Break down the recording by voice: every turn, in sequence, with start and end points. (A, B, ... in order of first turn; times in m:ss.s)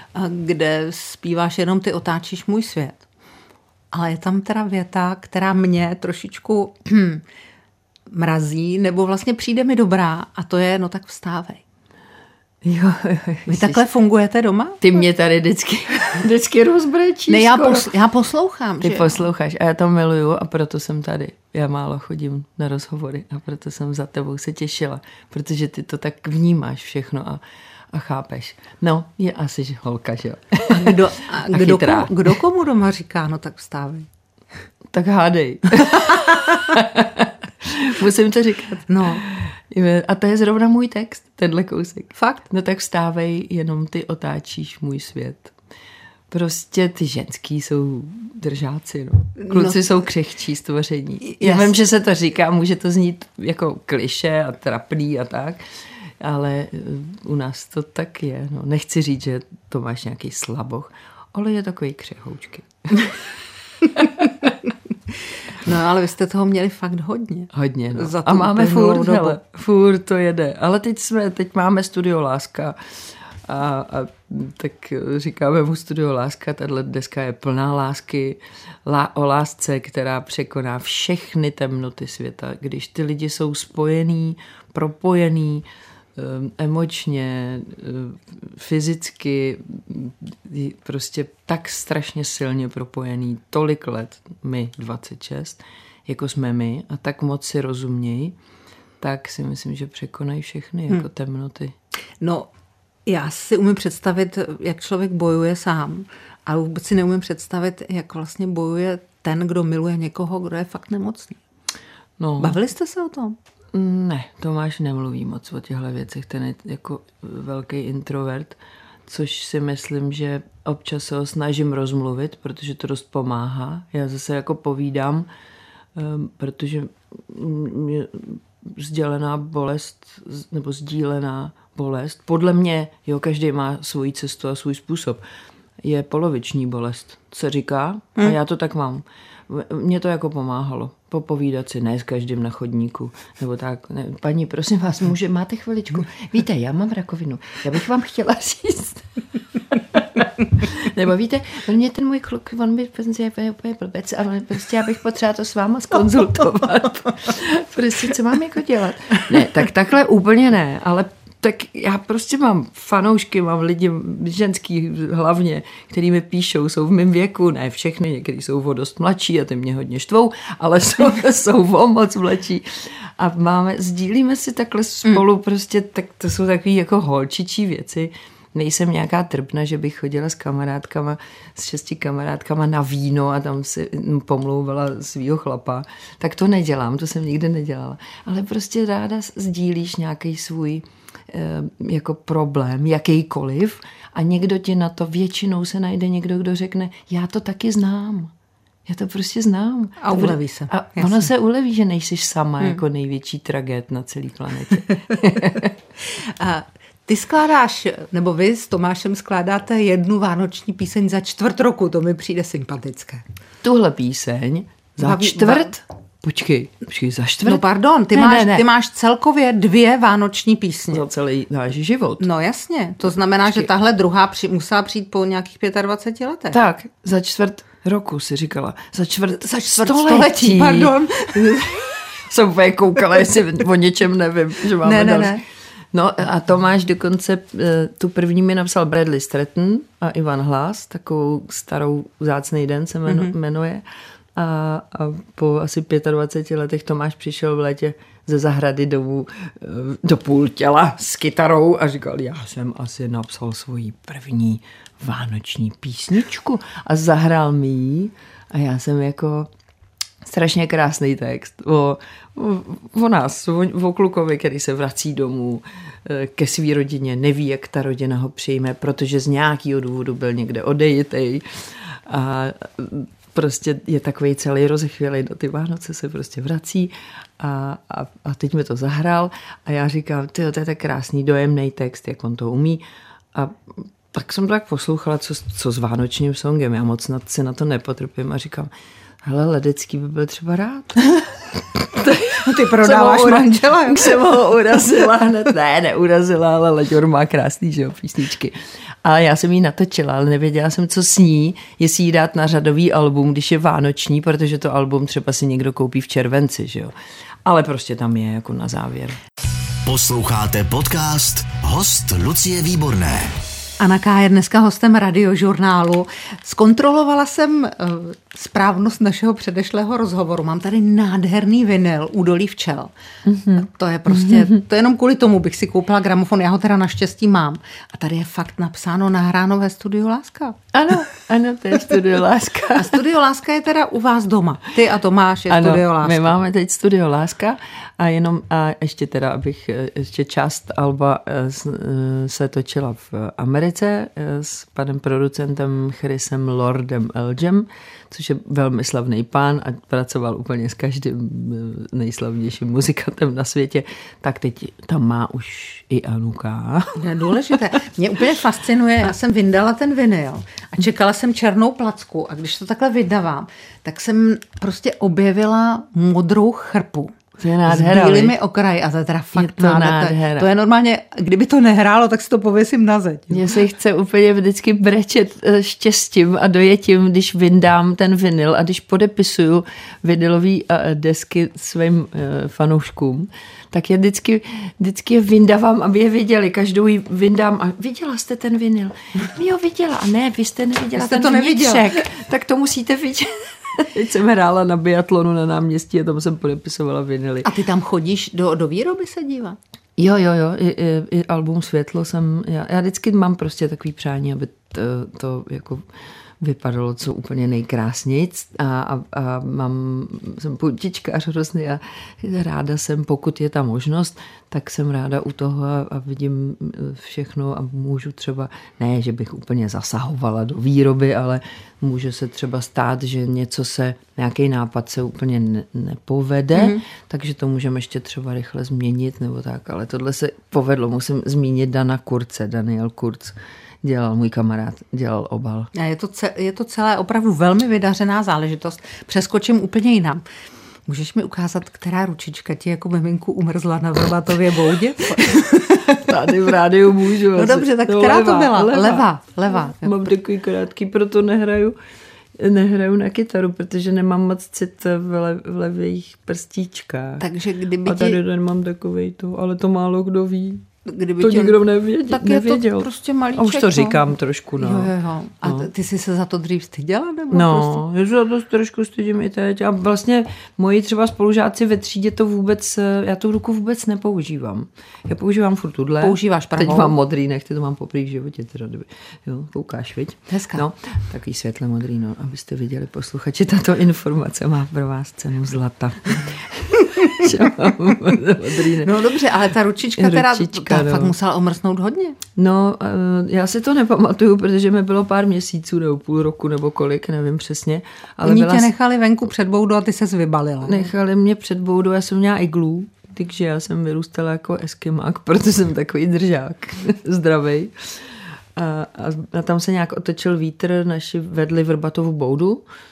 0:00.2-0:03.0 A
0:03.9-0:07.2 A
0:08.1-0:11.6 A
0:12.6-0:13.8 B
0:13.5-0:15.0 A
0:14.8-0:17.9 B
0:17.3-0:19.2 A
0:18.8-0:32.4 B
0:30.7-0:34.1 A
0:34.9-0:45.5 B
0:38.8-0:39.2 A
0:46.3-0:55.6 B
0:49.4-0:49.8 A
0:51.2-0:51.7 A
0:56.2-1:03.3 B
1:04.0-1:04.5 B
1:05.5-1:09.4 A
1:07.5-1:38.4 B
1:39.0-1:41.8 B
1:42.2-1:42.5 A
1:43.1-1:51.4 A
1:52.2-1:52.6 B
1:52.4-1:53.4 A
1:53.7-2:05.3 B
2:06.0-2:15.2 B
2:15.8-3:18.3 B
3:18.9-3:25.8 B
3:20.0-3:21.3 A
3:26.1-3:33.2 A
3:33.6-3:38.7 B
3:35.0-3:35.7 A
3:37.4-3:41.0 A
3:40.9-3:42.2 B
3:42.2-3:46.6 A
3:46.5-3:55.4 B
3:49.3-3:51.7 A
3:54.8-3:55.4 A
3:55.9-4:19.5 B
4:03.1-4:03.3 A
4:20.2-4:48.7 B
4:49.2-5:06.9 B
4:52.4-4:54.2 A
5:07.4-5:09.2 B
5:09.8-5:13.4 C
5:13.8-5:22.9 A
5:23.3-5:24.6 B
5:23.5-5:30.6 A
5:30.7-5:33.0 B
5:32.8-5:36.3 A
5:35.5-5:57.6 B
5:57.0-6:13.5 A
6:07.4-6:08.4 B
6:09.4-6:10.5 B
6:13.3-6:37.6 B
6:31.0-6:32.0 A
6:37.4-6:39.6 A
6:40.0-6:45.9 B
6:46.4-7:15.7 B
7:06.6-7:06.8 A
7:15.7-7:20.2 A
7:20.9-7:26.1 A
7:26.0-7:31.8 B
7:27.3-7:30.1 A
7:32.4-7:37.2 B
7:37.2-7:38.2 A
7:37.8-7:40.7 B
7:40.8-7:44.0 A
7:41.2-7:44.9 B
7:44.6-7:47.8 A
7:45.4-7:45.7 B
7:47.3-8:09.0 B
7:56.0-7:56.9 A
8:00.3-8:00.6 A
8:08.8-8:12.2 A
8:10.0-8:11.1 B
8:12.4-8:18.7 B
8:18.2-8:20.9 A
8:20.6-8:32.6 B